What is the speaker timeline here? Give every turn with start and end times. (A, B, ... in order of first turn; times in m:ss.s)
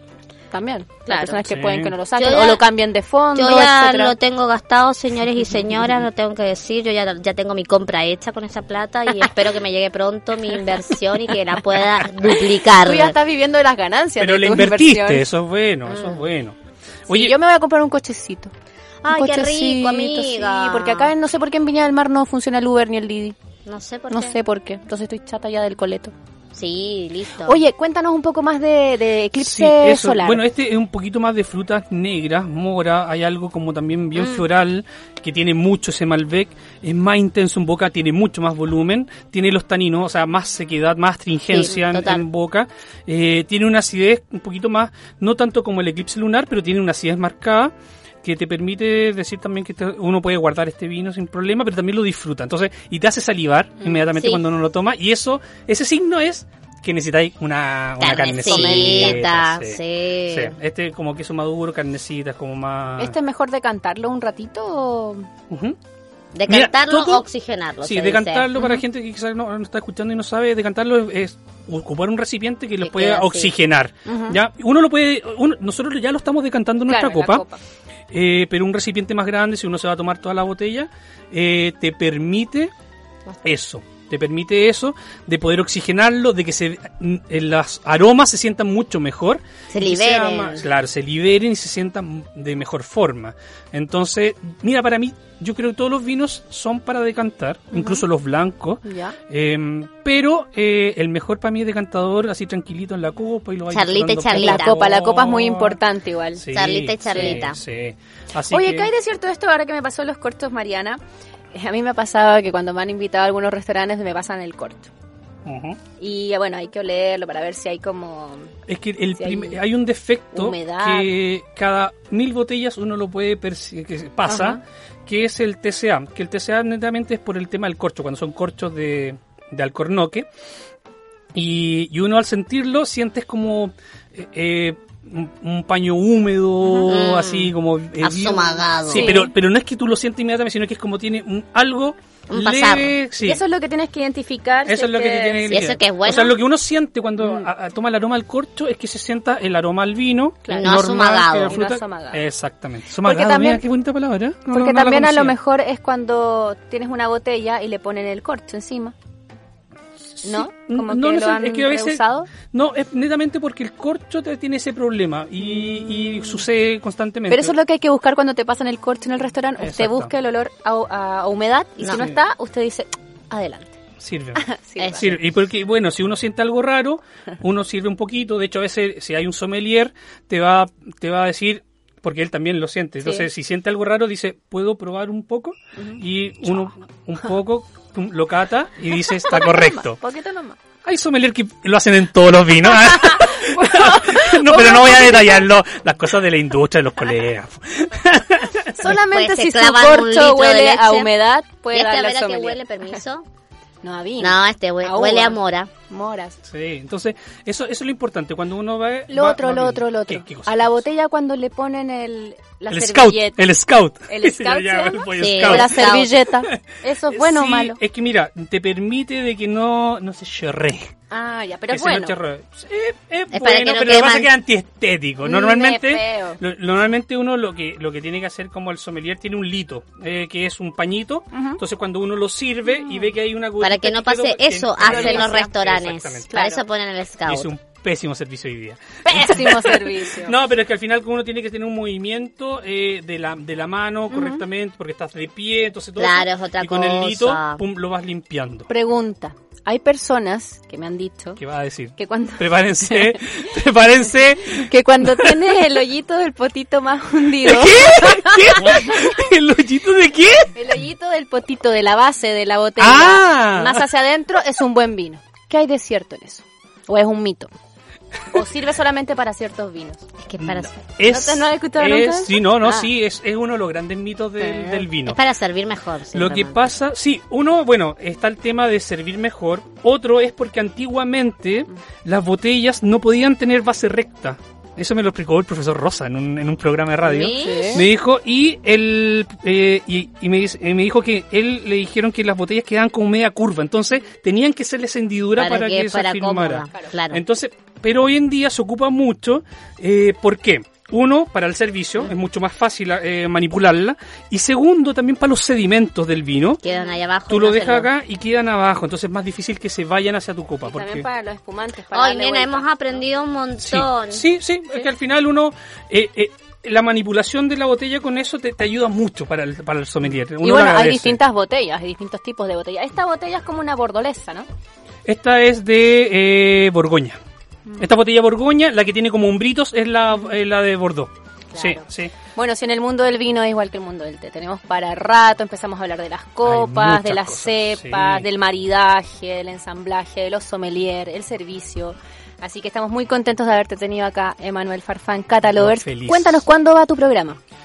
0:00.5-0:04.1 A
0:01.0-0:01.4 B
0:01.5-0:01.9 C
0:02.1-0:02.6 B
0:03.3-0:13.1 B
0:12.6-0:15.2 A
0:14.2-0:16.6 C
0:15.9-0:16.2 B
0:17.1-0:18.5 A
0:17.1-0:17.3 C
0:19.0-0:21.1 B
0:19.1-0:23.3 A
0:23.6-0:24.4 B
0:24.1-0:26.1 A
0:26.5-0:27.6 B
0:27.4-0:30.4 A
0:29.4-1:03.2 C
0:34.2-0:34.4 B
0:41.5-0:42.2 B
0:54.1-0:54.4 B
0:58.0-1:00.5 B
0:58.4-0:59.2 A
1:03.0-1:05.3 A
1:05.5-1:05.8 C
1:06.3-1:08.5 B
1:06.5-1:07.2 C
1:07.8-1:17.4 C
1:12.8-1:13.5 B
1:14.0-1:14.4 A
1:16.9-1:17.6 A
1:18.1-1:22.7 C
1:23.4-1:45.8 C
1:29.7-1:30.6 B
1:37.7-1:38.0 A
1:38.8-1:39.2 A
1:43.7-1:44.8 B
1:44.3-1:46.4 A
1:46.4-1:48.9 C
1:46.5-1:47.6 B
1:47.1-1:47.4 A
1:48.5-1:51.0 A
1:51.5-1:54.9 A
1:55.4-1:55.8 C
1:56.0-1:58.5 A
1:58.7-2:10.3 C
1:59.2-1:59.6 A
2:00.3-2:01.1 A
2:04.3-2:04.6 A
2:11.3-2:23.4 C
2:16.9-2:17.5 B
2:18.0-2:19.2 B
2:18.9-2:19.3 A
2:22.3-2:22.9 B
2:23.2-2:25.7 A
2:24.6-2:35.3 C
2:25.5-2:26.3 B
2:27.2-2:27.5 A
2:30.4-2:30.8 A
2:30.5-2:31.6 B
2:31.4-2:32.2 A
2:33.0-2:33.6 A
2:34.5-2:38.9 A
2:40.1-2:47.6 C
2:40.2-2:42.3 A
2:47.3-2:53.7 A
2:49.6-2:50.1 C
2:51.8-2:52.1 B
2:54.0-2:54.4 C
2:54.4-2:55.1 A
2:54.8-2:55.1 B
2:55.0-3:10.0 C
3:03.0-3:03.3 A
3:08.9-3:10.6 A
3:10.8-3:18.8 C
3:13.0-3:15.4 A
3:18.8-3:23.0 A
3:18.8-3:21.1 B
3:21.7-3:23.2 B
3:23.8-3:25.4 A
3:24.2-3:25.7 B
3:25.9-3:26.4 A
3:26.5-3:30.7 C
3:29.1-3:33.4 A
3:32.7-3:36.0 C
3:34.1-3:37.8 A
3:35.2-3:36.1 B
3:37.1-3:40.9 C
3:41.1-3:42.2 A
3:41.7-3:56.3 C
3:43.3-3:44.3 B
3:45.2-3:46.4 A
3:51.3-3:51.6 A
3:53.6-3:57.5 B
3:54.8-3:55.5 A
3:56.3-3:56.6 A
3:57.3-4:08.7 C
3:59.0-4:00.4 A
4:04.1-4:04.4 A
4:06.0-4:07.6 B
4:08.7-4:11.4 A
4:11.4-4:15.3 C
4:12.0-4:13.2 A
4:14.5-4:18.9 A
4:17.4-4:20.6 C
4:20.5-4:27.5 A
4:22.8-4:23.8 C
4:28.3-4:30.1 A
4:30.2-4:30.7 B
4:30.4-4:35.2 C
4:31.0-4:32.9 A
4:34.4-4:34.8 A
4:35.0-4:36.6 B
4:36.1-5:06.6 C
4:47.0-4:47.8 B
4:47.4-4:47.8 A
4:55.4-4:57.2 B
5:06.6-5:07.9 B
5:07.3-5:11.0 C
5:10.6-5:12.7 A
5:11.9-5:14.2 B
5:13.6-5:21.2 C
5:20.4-5:24.4 A
5:25.0-5:27.2 C
5:27.8-5:32.1 C
5:31.5-5:31.8 A
5:32.4-5:47.4 A
5:36.4-5:38.2 C
5:45.5-5:46.4 C